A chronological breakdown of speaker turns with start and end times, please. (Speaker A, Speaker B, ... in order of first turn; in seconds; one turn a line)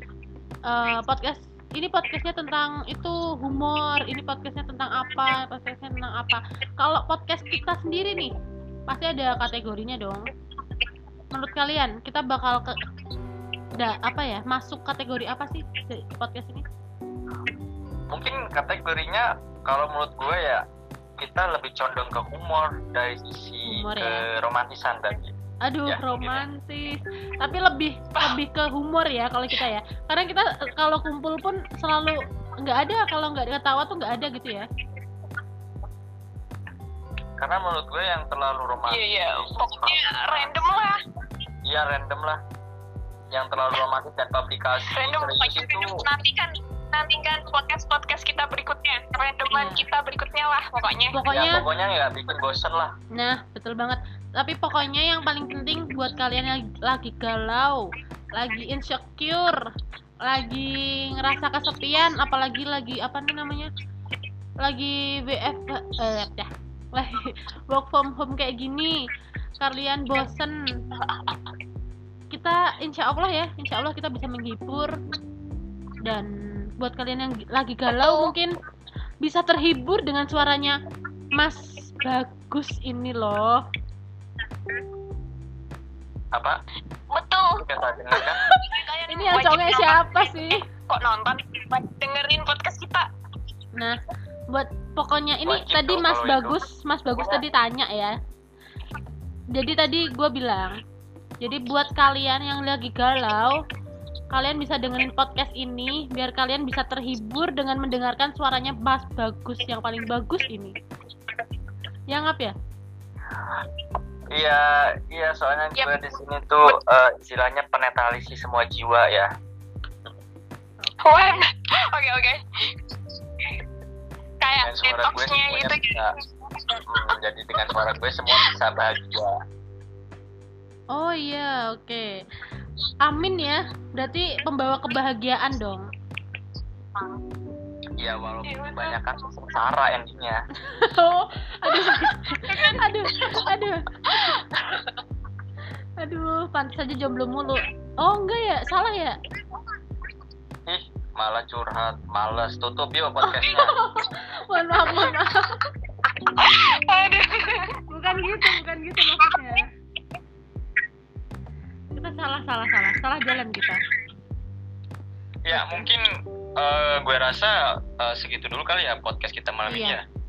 Speaker A: 0.7-8.3
Speaker A: 8.9-10.2
Speaker A: 11.3-12.8
Speaker A: 13.8-16.6
Speaker B: 18.1-20.6
Speaker B: 21.2-25.3
Speaker A: 23.7-24.2
Speaker A: 25.6-34.6
Speaker B: 25.9-26.5
Speaker B: 37.4-40.7
Speaker C: 38.9-41.0
Speaker B: 41.6-42.4
Speaker B: 43.3-46.0
Speaker C: 44.9-51.2
Speaker A: 49.5-49.9
Speaker A: 51.1-51.6
Speaker B: 51.2-52.9
Speaker A: 53.1-59.6
Speaker A: 60.2-63.7
Speaker A: 64.6-69.0
Speaker A: 69.6-70.6
Speaker C: 71.0-71.4
Speaker A: 72.3-74.9
Speaker A: 76.0-78.5
Speaker C: 77.9-78.3
Speaker A: 79.2-80.8
Speaker A: 81.3-83.6
Speaker C: 87.1-87.6
Speaker B: 87.6-88.4
Speaker A: 88.2-90.6
Speaker C: 88.7-93.1
Speaker A: 94.5-98.1
Speaker B: 95.4-96.6
Speaker A: 99.5-100.8
Speaker A: 101.4-103.6
Speaker A: 104.3-110.7
Speaker A: 112.1-112.5
Speaker B: 114.3-119.3
Speaker A: 120.8-121.4
Speaker C: 121.0-122.4
Speaker C: 124.4-126.8
Speaker B: 124.6-126.1
Speaker B: 126.9-129.4
Speaker A: 130.9-132.1
Speaker A: 133.0-135.9
Speaker B: 138.0-140.4
Speaker C: 138.4-139.3
Speaker A: 140.6-144.5
Speaker C: 141.7-143.5
Speaker C: 144.1-144.9
Speaker A: 146.0-149.2
Speaker B: 150.7-153.8
Speaker A: 153.2-155.6
Speaker C: 154.9-155.1
Speaker C: 156.1-157.7
Speaker A: 157.9-159.7
Speaker C: 159.2-159.5
Speaker A: 161.9-163.8
Speaker B: 165.5-166.0
Speaker A: 165.5-165.9
Speaker B: 166.6-170.0
Speaker A: 169.7-170.0